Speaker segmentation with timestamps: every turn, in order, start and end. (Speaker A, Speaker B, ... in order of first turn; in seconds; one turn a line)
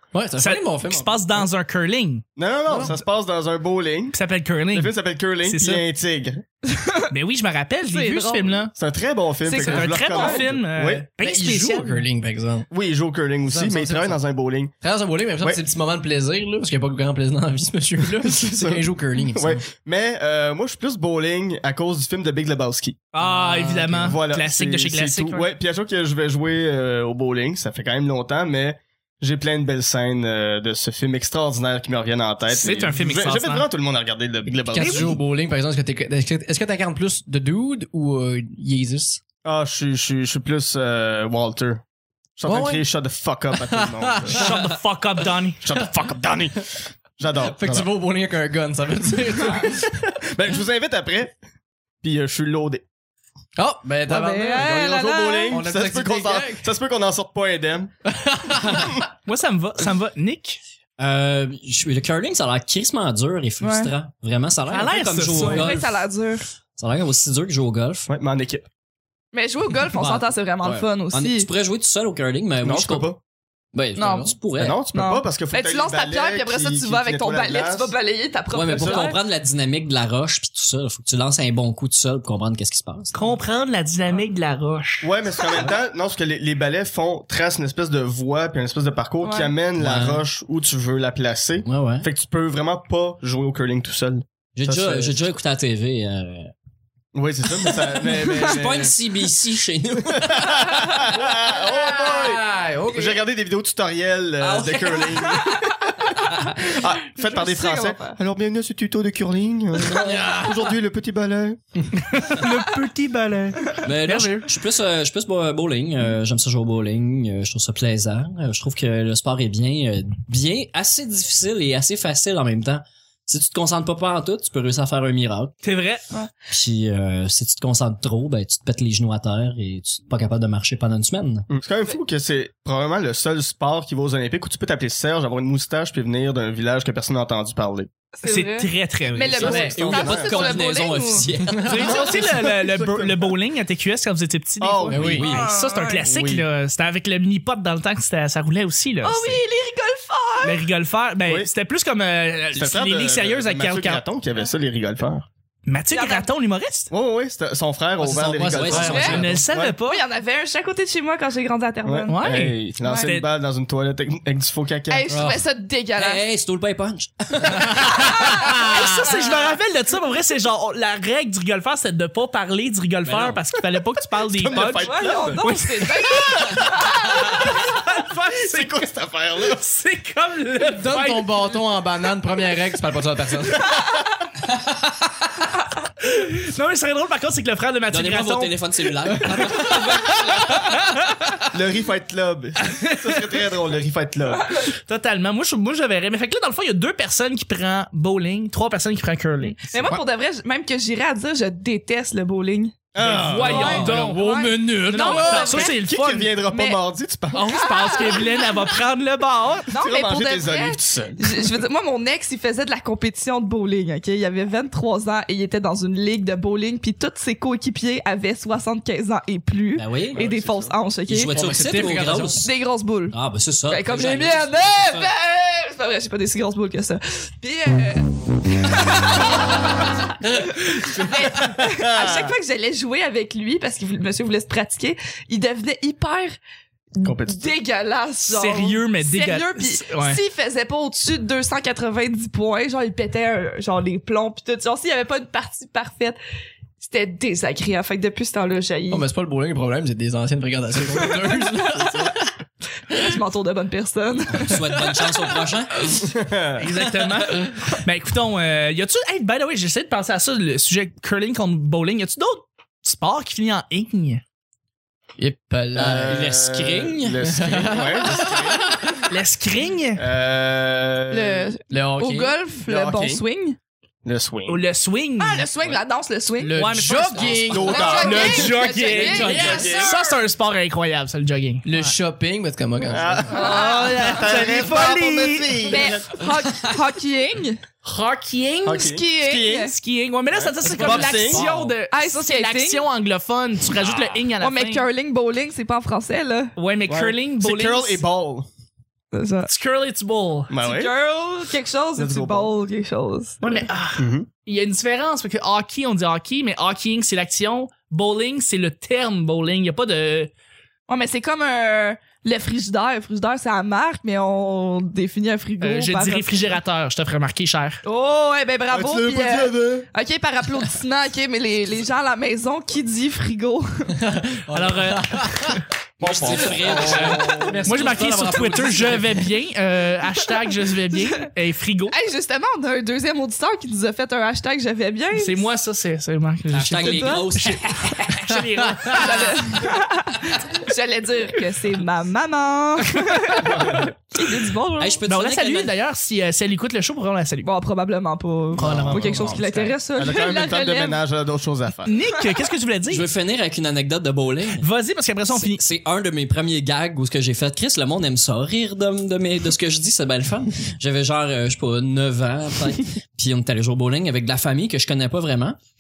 Speaker A: 0.1-1.5
Speaker B: 0.4-2.2
Speaker C: 2.4-4.2
Speaker A: 2.7-3.0
Speaker B: 4.1-5.8
Speaker C: 4.7-6.4
Speaker D: 6.7-7.1
Speaker B: 7.1-8.7
Speaker D: 7.9-8.6
Speaker C: 8.7-11.1
Speaker B: 9.4-12.1
Speaker D: 9.5-10.4
Speaker A: 11.2-12.7
Speaker C: 12.7-14.7
Speaker A: 13.5-14.2
Speaker A: 14.8-19.6
Speaker C: 18.4-23.0
Speaker B: 23.1-25.5
Speaker A: 23.2-24.2
Speaker C: 24.0-35.1
Speaker B: 32.5-33.7
Speaker A: 34.7-39.2
Speaker B: 34.8-35.2
Speaker C: 39.4-41.8
Speaker C: 42.4-44.4
Speaker A: 42.5-42.9
Speaker A: 43.6-44.6
Speaker B: 44.3-45.6
Speaker C: 45.6-46.7
Speaker C: 47.2-47.9
Speaker A: 47.4-50.0
Speaker C: 50.1-51.4
Speaker C: 52.0-52.8
Speaker A: 53.6-54.8
Speaker D: 54.1-55.6
Speaker C: 54.5-57.9
Speaker A: 55.5-56.7
Speaker A: 58.1-59.0
Speaker B: 59.3-60.6
Speaker E: 61.0-66.1
Speaker D: 63.6-63.9
Speaker B: 64.7-65.8
Speaker D: 65.3-66.5
Speaker E: 66.8-68.1
Speaker C: 68.1-68.7
Speaker D: 69.3-71.5
Speaker E: 69.9-73.1
Speaker C: 72.6-73.2
Speaker E: 73.7-74.8
Speaker D: 74.0-79.2
Speaker C: 74.6-77.9
Speaker E: 78.5-83.2
Speaker C: 78.8-79.0
Speaker B: 83.1-85.1
Speaker C: 85.0-95.2
Speaker D: 89.2-89.5
Speaker E: 89.8-90.2
Speaker E: 91.7-92.1
Speaker E: 94.5-96.5
Speaker C: 97.1-99.0
Speaker E: 98.2-100.4
Speaker D: 98.2-98.5
Speaker C: 99.9-111.6
Speaker A: 101.2-103.2
Speaker D: 104.9-105.6
Speaker D: 106.3-108.2
Speaker A: 109.8-110.7
Speaker B: 112.1-114.5
Speaker E: 113.8-125.5
Speaker B: 125.6-126.0
Speaker E: 126.5-131.5
Speaker C: 131.5-137.9
Speaker D: 138.2-141.3
Speaker B: 138.2-139.7
Speaker C: 139.4-140.6
Speaker E: 139.4-141.8
Speaker A: 141.5-141.8
Speaker B: 141.6-149.4
Speaker C: 141.7-143.3
Speaker C: 144.6-145.3
Speaker A: 144.9-145.3
Speaker E: 144.9-145.4
Speaker D: 145.2-146.0
Speaker C: 146.0-146.5
Speaker D: 149.0-150.7
Speaker B: 150.4-154.0
Speaker C: 152.5-155.3
Speaker B: 155.7-156.9
Speaker D: 155.9-156.3
Speaker C: 156.9-159.8
Speaker A: 158.0-159.4
Speaker E: 158.0-159.4
Speaker D: 158.8-159.2
Speaker B: 159.0-160.0
Speaker D: 159.8-162.2
Speaker C: 161.8-165.3
Speaker B: 162.1-163.3
Speaker D: 162.8-163.1
Speaker D: 164.9-166.2
Speaker A: 165.1-165.4
Speaker E: 166.0-169.1
Speaker D: 168.0-169.6
Speaker B: 168.0-178.9
Speaker E: 173.1-173.4
Speaker C: 174.3-175.4
Speaker D: 174.6-177.4
Speaker C: 176.1-177.6
Speaker C: 178.3-179.7
Speaker B: 179.5-181.5
Speaker A: 180.7-183.7
Speaker B: 186.0-191.4
Speaker E: 187.9-190.6
Speaker C: 191.5-194.6
Speaker B: 192.6-193.3
Speaker B: 194.7-200.0
Speaker D: 199.4-202.9
Speaker C: 202.9-203.9
Speaker B: 203.0-206.3
Speaker D: 203.4-205.8
Speaker A: 203.4-205.7
Speaker C: 205.6-207.5
Speaker D: 206.5-206.8
Speaker B: 207.3-209.7
Speaker D: 207.3-208.5
Speaker D: 209.7-221.3
Speaker C: 209.8-211.6
Speaker E: 219.8-222.5
Speaker A: 221.3-222.5
Speaker D: 222.4-236.4
Speaker E: 223.1-225.1
Speaker C: 231.0-232.4
Speaker D: 237.0-246.2
Speaker C: 237.0-237.6
Speaker B: 238.3-240.2
Speaker D: 246.8-249.1
Speaker A: 248.9-252.3
Speaker D: 250.9-252.1
Speaker D: 252.9-255.0
Speaker E: 254.3-256.0
Speaker C: 256.0-256.7
Speaker B: 256.6-264.2
Speaker A: 265.2-266.4
Speaker C: 265.8-268.7
Speaker E: 266.1-267.2
Speaker A: 267.2-269.1
Speaker B: 269.1-270.0
Speaker C: 269.9-271.5
Speaker D: 271.1-273.6
Speaker A: 271.7-272.4
Speaker C: 272.6-273.2
Speaker C: 274.1-274.6
Speaker B: 274.5-275.5
Speaker D: 275.2-276.6
Speaker A: 276.4-278.1
Speaker B: 276.5-281.9
Speaker C: 277.3-280.0
Speaker D: 277.5-279.8
Speaker A: 278.9-280.2
Speaker A: 281.6-283.3
Speaker C: 282.9-286.3
Speaker D: 283.3-284.1
Speaker B: 283.3-285.9
Speaker D: 285.7-287.6
Speaker B: 287.8-288.9
Speaker C: 288.6-289.7
Speaker D: 288.8-289.7
Speaker B: 289.5-294.9
Speaker C: 290.3-291.5
Speaker A: 290.6-291.8
Speaker D: 291.9-292.8
Speaker D: 294.4-296.5
Speaker B: 296.6-298.0
Speaker C: 296.9-298.5
Speaker D: 299.1-299.5
Speaker B: 299.5-300.5
Speaker C: 300.5-300.9
Speaker D: 300.6-303.4
Speaker C: 302.0-302.5
Speaker B: 303.4-310.3
Speaker C: 304.0-304.3
Speaker D: 310.9-316.6
Speaker B: 315.6-317.8
Speaker D: 317.9-324.0
Speaker C: 318.7-319.9
Speaker A: 324.0-325.6
Speaker B: 324.5-325.6
Speaker E: 326.0-327.9
Speaker C: 326.0-327.6
Speaker A: 326.2-329.3
Speaker B: 327.7-331.9
Speaker D: 330.9-331.3
Speaker D: 331.9-335.4
Speaker B: 335.1-339.8
Speaker E: 336.5-337.8
Speaker D: 336.8-337.3
Speaker A: 338.3-339.1
Speaker D: 338.9-345.0
Speaker C: 343.4-343.9
Speaker E: 344.8-345.7
Speaker B: 345.1-347.5
Speaker D: 347.4-351.0
Speaker B: 348.5-349.7
Speaker C: 348.6-349.2
Speaker E: 348.6-349.5
Speaker C: 349.9-352.0
Speaker B: 351.8-353.1
Speaker E: 352.9-354.6
Speaker B: 354.6-355.6
Speaker E: 355.3-365.6